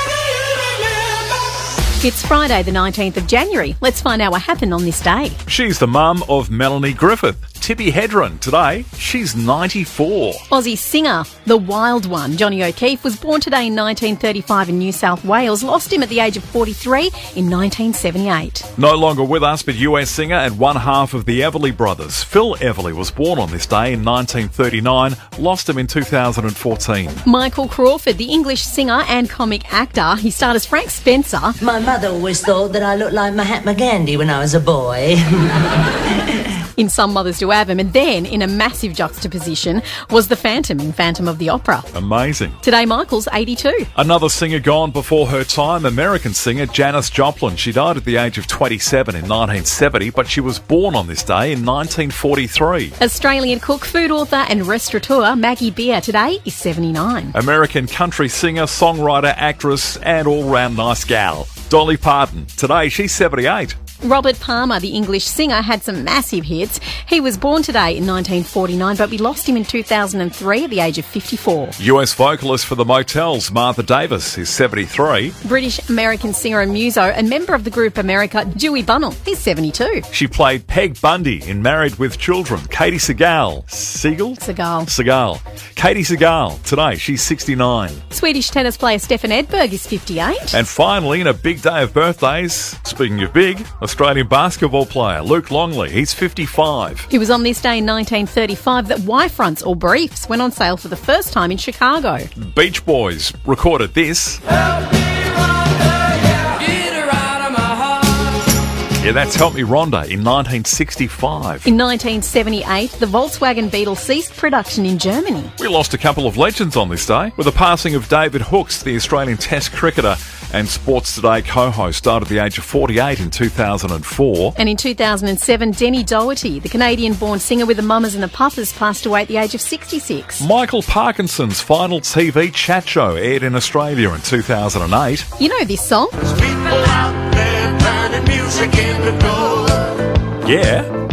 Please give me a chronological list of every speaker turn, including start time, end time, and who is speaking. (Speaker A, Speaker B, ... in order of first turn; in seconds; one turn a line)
Speaker A: 2.0-5.4
Speaker B: 5.5-10.4
Speaker A: 10.5-18.7
Speaker B: 18.8-27.2
Speaker A: 27.2-31.6
Speaker C: 31.6-35.6
Speaker A: 36.8-41.9
Speaker B: 41.9-42.6
Speaker A: 42.6-43.9
Speaker B: 44.0-53.0
Speaker A: 53.0-57.3
Speaker B: 57.3-63.8
Speaker A: 64.0-71.8
Speaker B: 71.8-75.3
Speaker A: 75.4-80.0
Speaker B: 80.1-88.0
Speaker A: 84.4-84.9
Speaker A: 88.1-90.6
Speaker B: 90.5-97.1
Speaker A: 97.1-102.3
Speaker B: 102.3-104.4
Speaker B: 109.0-111.7
Speaker A: 111.6-115.5
Speaker B: 115.6-124.5
Speaker A: 124.5-130.4
Speaker B: 130.4-135.3
Speaker A: 135.4-136.4
Speaker D: 136.5-139.8
Speaker B: 140.4-140.9